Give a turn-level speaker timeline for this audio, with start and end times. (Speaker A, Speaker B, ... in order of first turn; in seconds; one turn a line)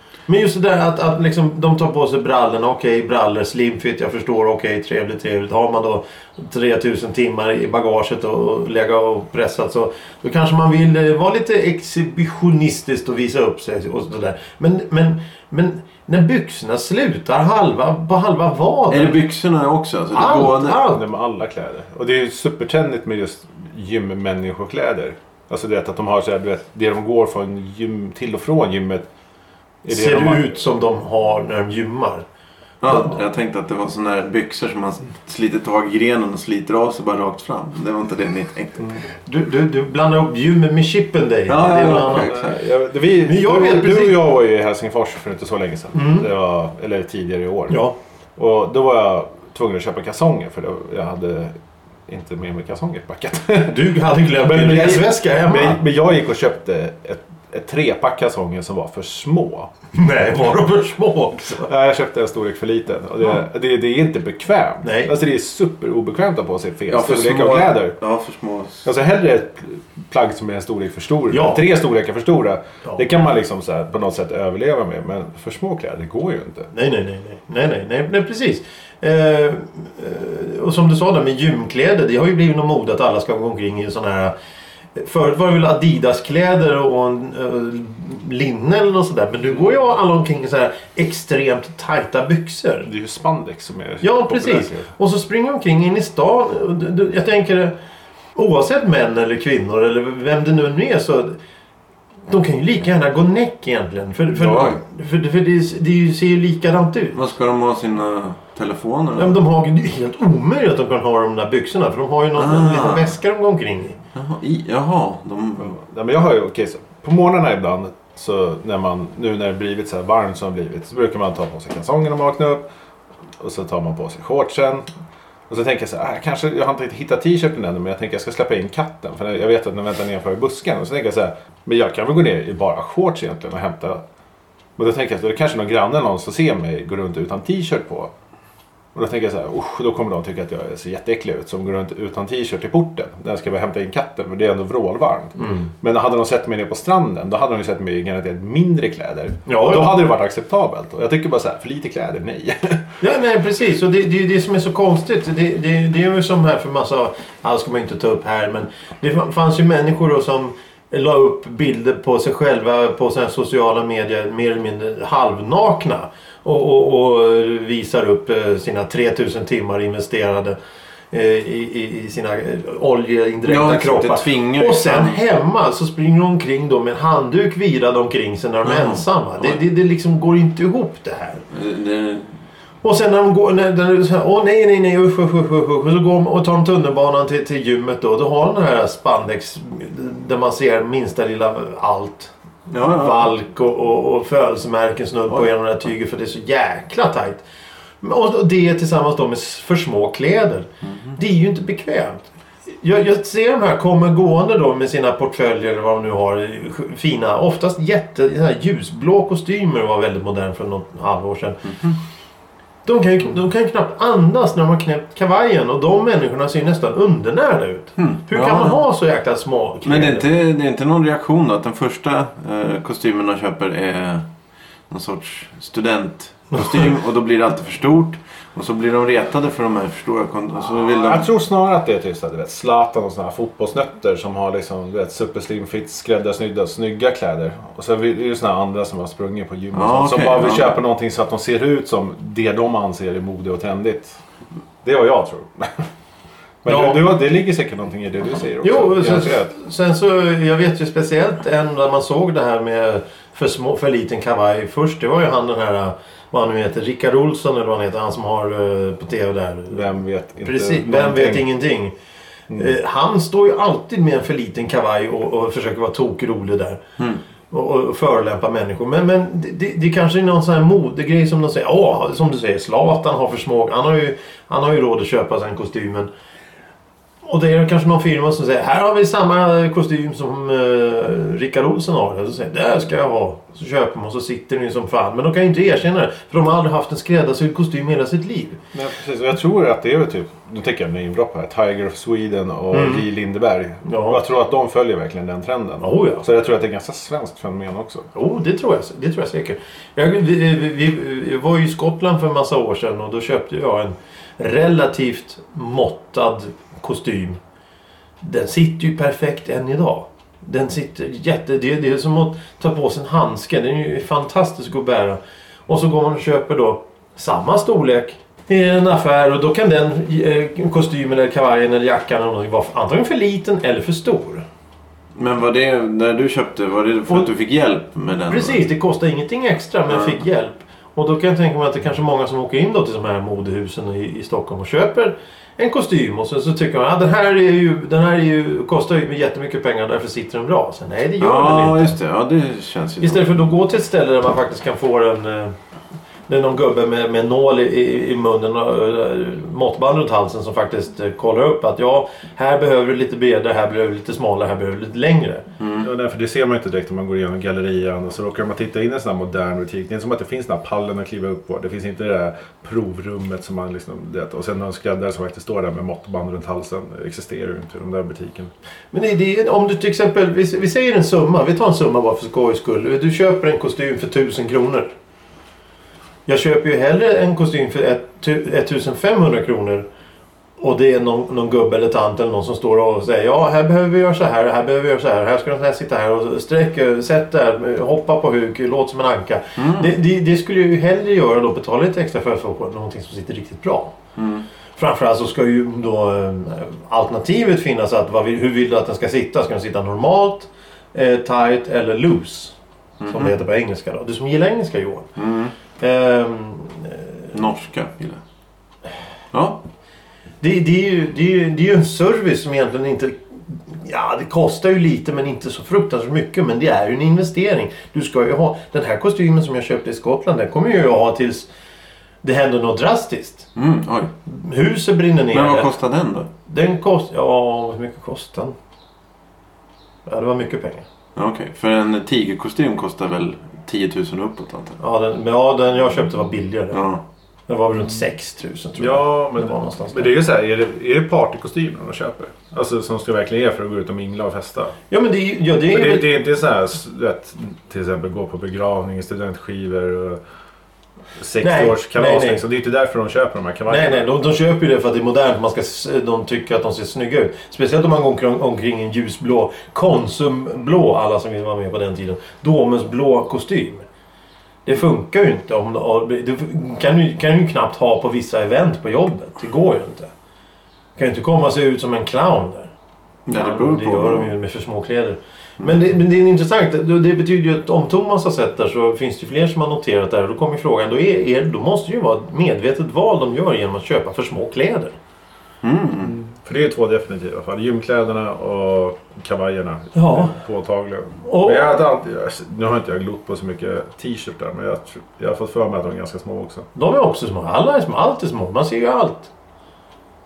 Speaker A: 0.3-19.2
Speaker B: 18.9-20.8
Speaker A: 20.1-21.0
Speaker C: 20.9-29.1
Speaker C: 29.9-30.5
Speaker A: 29.9-32.2
Speaker B: 32.8-39.0
Speaker A: 32.9-33.2
Speaker A: 39.3-42.3
Speaker B: 41.5-42.6
Speaker C: 42.1-47.8
Speaker A: 43.2-44.2
Speaker A: 45.9-46.3
Speaker A: 47.7-48.0
Speaker C: 48.4-53.8
Speaker A: 53.7-55.8
Speaker C: 54.4-59.7
Speaker A: 59.9-61.7
Speaker C: 61.6-68.0
Speaker A: 64.8-65.1
Speaker B: 66.9-68.9
Speaker C: 68.8-76.7
Speaker A: 71.3-71.6
Speaker A: 76.7-84.3
Speaker A: 85.0-92.9
Speaker C: 92.8-94.9
Speaker A: 94.0-97.8
Speaker A: 98.4-101.4
Speaker A: 102.3-107.2
Speaker B: 104.4-104.8
Speaker B: 107.2-109.4
Speaker A: 109.2-114.0
Speaker B: 112.4-113.2
Speaker B: 114.2-115.8
Speaker C: 115.6-122.6
Speaker C: 123.4-124.9
Speaker C: 125.5-134.0
Speaker C: 134.8-138.1
Speaker C: 138.9-152.9
Speaker A: 145.4-145.7
Speaker A: 149.5-150.0
Speaker A: 153.0-170.6
Speaker A: 171.1-181.4
Speaker B: 173.5-175.2
Speaker B: 178.7-179.6
Speaker B: 181.5-182.3
Speaker A: 182.8-197.4
Speaker B: 192.7-193.3
Speaker A: 198.0-211.7
Speaker B: 200.8-201.2
Speaker A: 212.8-220.3
Speaker B: 218.0-218.8
Speaker B: 219.8-224.3
Speaker B: 224.9-231.3
Speaker C: 230.8-244.2
Speaker B: 239.7-240.8
Speaker C: 244.8-245.9
Speaker C: 246.6-249.5
Speaker A: 246.7-247.1
Speaker A: 248.6-259.9
Speaker C: 259.7-261.5
Speaker A: 260.4-261.9
Speaker A: 262.5-266.8
Speaker A: 267.5-276.1
Speaker A: 277.2-288.6
Speaker C: 288.7-298.1
Speaker A: 292.7-293.1
Speaker A: 293.8-294.2
Speaker A: 295.8-296.2
Speaker A: 298.1-307.4
Speaker A: 308.2-324.5
Speaker B: 325.2-328.6
Speaker A: 328.3-341.9
Speaker B: 329.9-330.2
Speaker B: 341.2-343.4
Speaker A: 343.0-345.5
Speaker A: 346.3-355.5
Speaker B: 355.6-355.9
Speaker C: 355.8-368.5
Speaker A: 368.9-374.9
Speaker A: 376.3-379.9
Speaker A: 380.6-394.0
Speaker B: 389.6-389.9
Speaker B: 394.2-394.4
Speaker A: 394.8-402.6
Speaker B: 403.0-403.4
Speaker A: 403.1-405.1
Speaker B: 405.2-405.5
Speaker A: 405.8-407.1
Speaker B: 407.3-408.2
Speaker B: 409.3-409.6
Speaker A: 410.4-421.5
Speaker A: 422.2-423.5
Speaker B: 423.6-424.1
Speaker A: 424.3-425.7
Speaker B: 425.3-426.3
Speaker A: 426.5-428.6
Speaker A: 430.1-430.9
Speaker B: 431.2-434.8
Speaker A: 434.8-436.8
Speaker B: 436.7-437.0
Speaker A: 437.5-440.1
Speaker C: 438.8-444.8
Speaker A: 444.9-446.1
Speaker C: 445.7-450.2
Speaker C: 451.2-454.1
Speaker A: 451.4-452.4
Speaker A: 453.7-463.9
Speaker A: 464.7-470.1
Speaker A: 471.0-472.7
Speaker B: 473.3-474.3
Speaker A: 473.3-485.0
Speaker B: 485.6-486.2
Speaker C: 486.0-496.7
Speaker A: 489.9-490.3
Speaker A: 491.2-491.8
Speaker A: 496.8-499.3